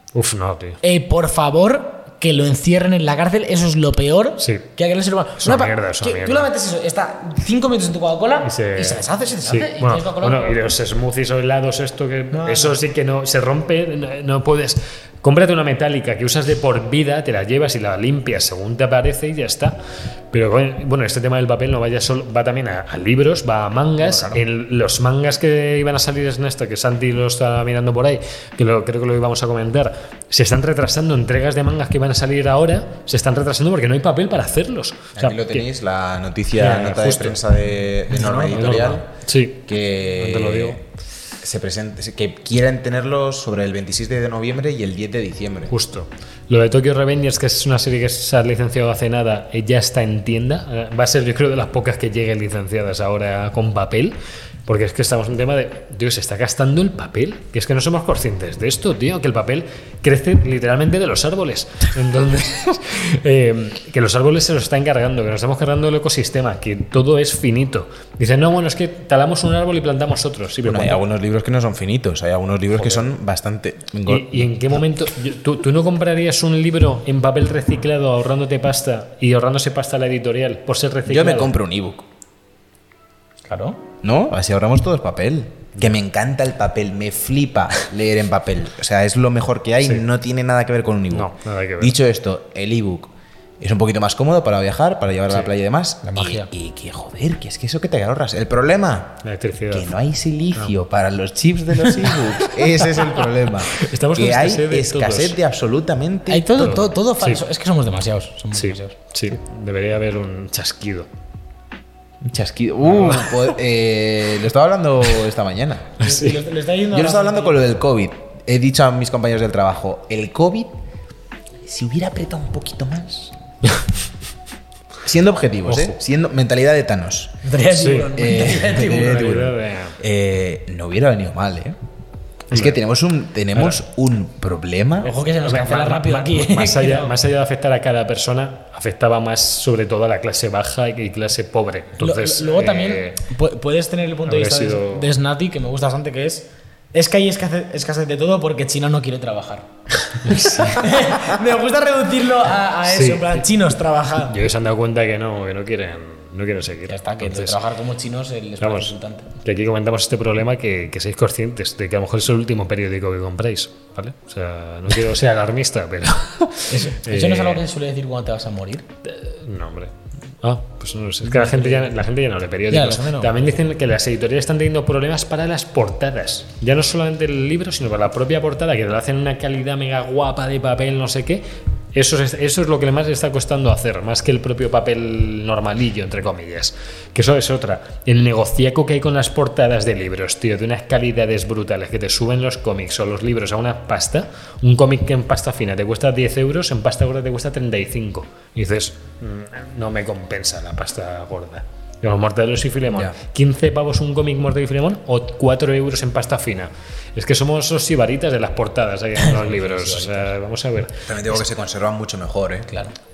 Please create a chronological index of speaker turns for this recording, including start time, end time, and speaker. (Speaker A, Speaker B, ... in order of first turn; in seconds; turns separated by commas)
Speaker A: 0.1-0.8, Speaker B: 0.8-10.6, Speaker A: 4.4-4.6, Speaker A: 5.4-6.5, Speaker A: 8.4-19.8, Speaker B: 12.3-12.8, Speaker A: 20.3-35.7, Speaker B: 24.1-24.4, Speaker C: 35.2-39.0, Speaker A: 36.5-37.4, Speaker B: 38.1-38.9, Speaker A: 38.3-39.6, Speaker C: 39.7-40.8, Speaker A: 40.2-40.8, Speaker C: 41.4-45.7, Speaker A: 45.7-71.0, Speaker C: 70.6-74.6, Speaker A: 72.8-73.1, Speaker A: 74.1-81.5, Speaker C: 81.1-82.1, Speaker B: 83.5-83.8, Speaker C: 84.0-106.7, Speaker A: 91.1-92.0, Speaker B: 96.0-96.5, Speaker A: 99.2-99.9, Speaker A: 102.1-105.4, Speaker B: 106.3-109.0, Speaker A: 106.6-107.4, Speaker A: 108.5-111.1, Speaker C: 112.2-115.9, Speaker A: 112.9-113.4, Speaker B: 116.0-117.7, Speaker A: 116.0-116.4, Speaker C: 116.9-120.8, Speaker C: 121.6-123.3, Speaker C: 125.0-127.4, Speaker A: 125.7-126.0, Speaker B: 127.4-129.2, Speaker A: 127.7-130.0, Speaker C: 128.2-131.8, Speaker C: 132.5-135.1, Speaker A: 132.5-132.8, Speaker A: 133.5-133.8, Speaker B: 135.0-137.2, Speaker A: 135.4-143.2, Speaker B: 142.0-154.4, Speaker A: 144.3-145.1, Speaker A: 150.2-151.1, Speaker A: 152.9-153.4, Speaker A: 154.3-157.6, Speaker B: 156.9-159.3, Speaker A: 158.6-167.6, Speaker B: 166.7-168.9, Speaker A: 169.1-181.4, Speaker B: 171.2-172.0, Speaker B: 172.7-173.4, Speaker A: 181.9-211.0, Speaker B: 209.2-210.3, Speaker C: 211.1-212.7, Speaker B: 212.7-212.9